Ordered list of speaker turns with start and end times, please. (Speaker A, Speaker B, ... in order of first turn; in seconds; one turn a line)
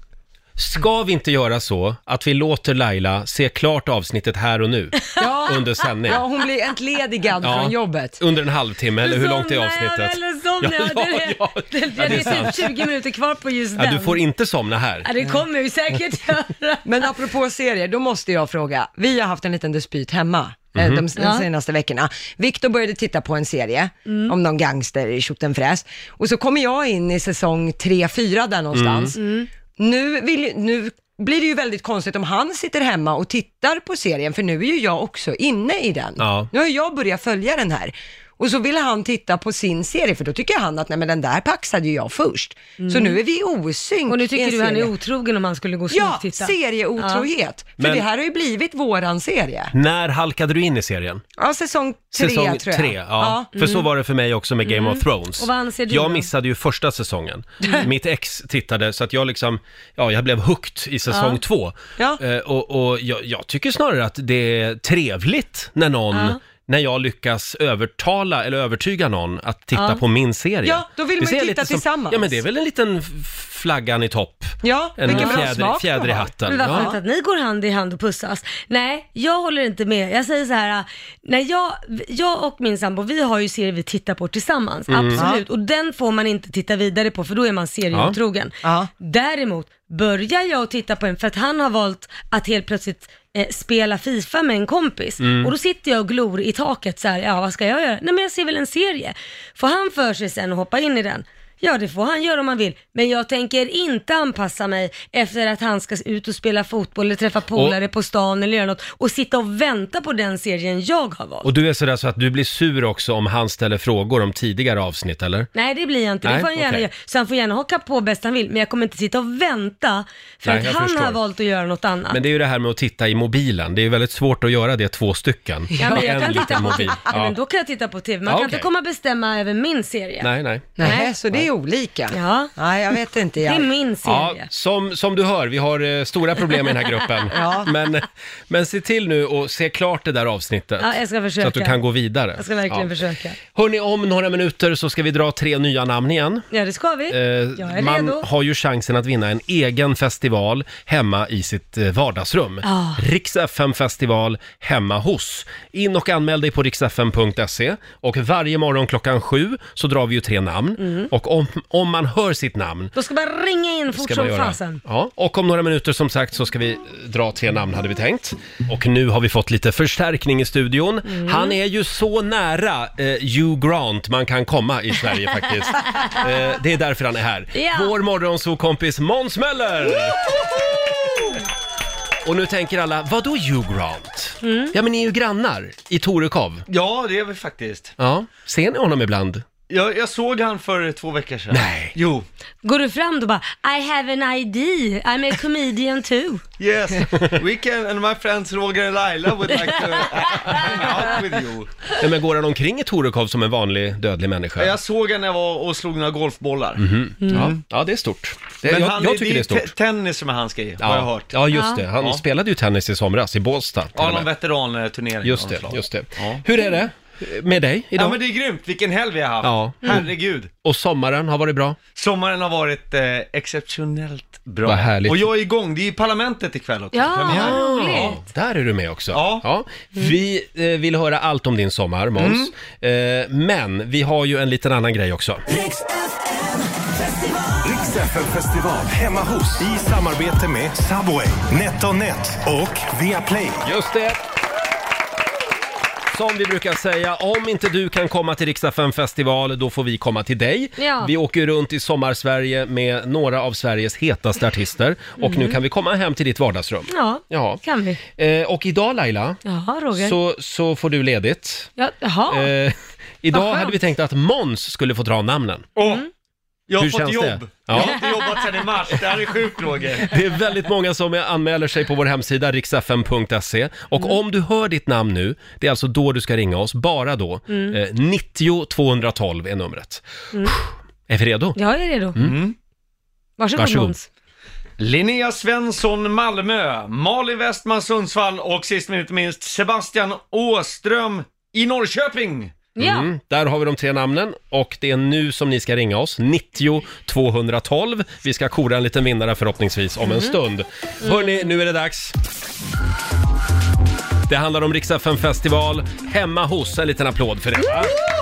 Speaker A: 0.6-6.2
Speaker B: 5.0-5.3
Speaker C: 5.2-8.2
Speaker A: 7.4-12.9
Speaker B: 9.0-14.2
Speaker A: 13.8-15.1
Speaker B: 15.0-16.8
Speaker C: 16.9-44.9
Speaker A: 20.8-21.1
Speaker B: 21.1-21.5
Speaker B: 24.1-24.3
Speaker A: 28.7-29.1
Speaker B: 29.1-29.5
Speaker A: 36.2-36.5
Speaker B: 42.8-43.2
Speaker B: 44.1-47.3
Speaker C: 45.9-49.7
Speaker A: 47.8-48.0
Speaker A: 49.7-51.2
Speaker C: 51.4-53.5
Speaker A: 52.1-76.9
Speaker B: 53.5-53.9
Speaker B: 54.6-56.3
Speaker B: 61.1-61.4
Speaker B: 66.1-66.4
Speaker B: 69.7-70.0
Speaker C: 70.6-72.4
Speaker C: 74.6-77.0
Speaker B: 75.1-75.5
Speaker B: 76.5-111.5
Speaker A: 84.9-85.2
Speaker C: 85.2-85.4
Speaker C: 88.6-88.9
Speaker A: 95.2-95.5
Speaker A: 111.4-115.5
Speaker B: 115.5-122.2
Speaker A: 116.2-116.9
Speaker A: 120.5-121.2
Speaker A: 122.1-127.4
Speaker B: 125.8-131.1
Speaker C: 125.8-126.1
Speaker A: 128.2-128.7
Speaker A: 130.2-130.8
Speaker C: 130.8-133.7
Speaker B: 132.1-132.5
Speaker B: 133.4-134.5
Speaker A: 134.0-142.9
Speaker C: 137.3-137.7
Speaker B: 140.8-141.8
Speaker B: 142.4-143.4
Speaker A: 143.5-146.5
Speaker B: 146.5-148.2
Speaker A: 147.1-162.9
Speaker B: 152.6-153.0
Speaker B: 160.8-161.1
Speaker B: 162.9-164.8
Speaker A: 163.9-180.2
Speaker B: 171.1-171.6
Speaker B: 175.9-176.2
Speaker B: 177.5-177.9
Speaker A: 182.2-186.6
Speaker B: 184.4-184.7
Speaker D: 186.7-187.9
Speaker A: 188.0-189.4
Speaker D: 189.7-192.3
Speaker A: 191.5-191.9
Speaker B: 192.6-196.4
Speaker D: 196.6-201.7
Speaker B: 199.6-200.9
Speaker A: 202.0-204.7
Speaker D: 204.6-207.6
Speaker A: 206.8-209.7
Speaker B: 207.2-207.5
Speaker D: 208.6-211.4
Speaker A: 210.8-214.3
Speaker B: 211.5-211.9
Speaker D: 213.9-216.4
Speaker A: 215.2-218.2
Speaker D: 217.9-220.5
Speaker A: 219.4-220.1
Speaker A: 220.6-221.8
Speaker D: 221.9-227.6
Speaker A: 224.6-225.3
Speaker B: 226.9-228.2
Speaker A: 227.3-235.4
Speaker D: 229.1-229.4
Speaker D: 232.2-232.5
Speaker E: 237.6-243.6
Speaker A: 243.6-244.2
Speaker A: 246.1-259.4
Speaker B: 250.8-251.1
Speaker B: 255.2-255.6
Speaker B: 256.9-258.0
Speaker B: 259.4-260.2
Speaker A: 259.9-261.7
Speaker B: 261.8-262.5
Speaker A: 262.3-265.7
Speaker B: 263.3-263.8
Speaker D: 265.8-266.1
Speaker D: 266.7-270.1
Speaker A: 266.8-268.0
Speaker A: 270.0-281.6
Speaker B: 277.5-277.8
Speaker B: 281.6-282.2
Speaker D: 282.2-282.6
Speaker B: 283.4-284.1
Speaker A: 283.6-283.9
Speaker D: 284.8-292.6
Speaker B: 292.8-293.1
Speaker A: 292.8-302.1
Speaker B: 300.0-300.4
Speaker B: 301.0-301.5
Speaker A: 304.3-307.9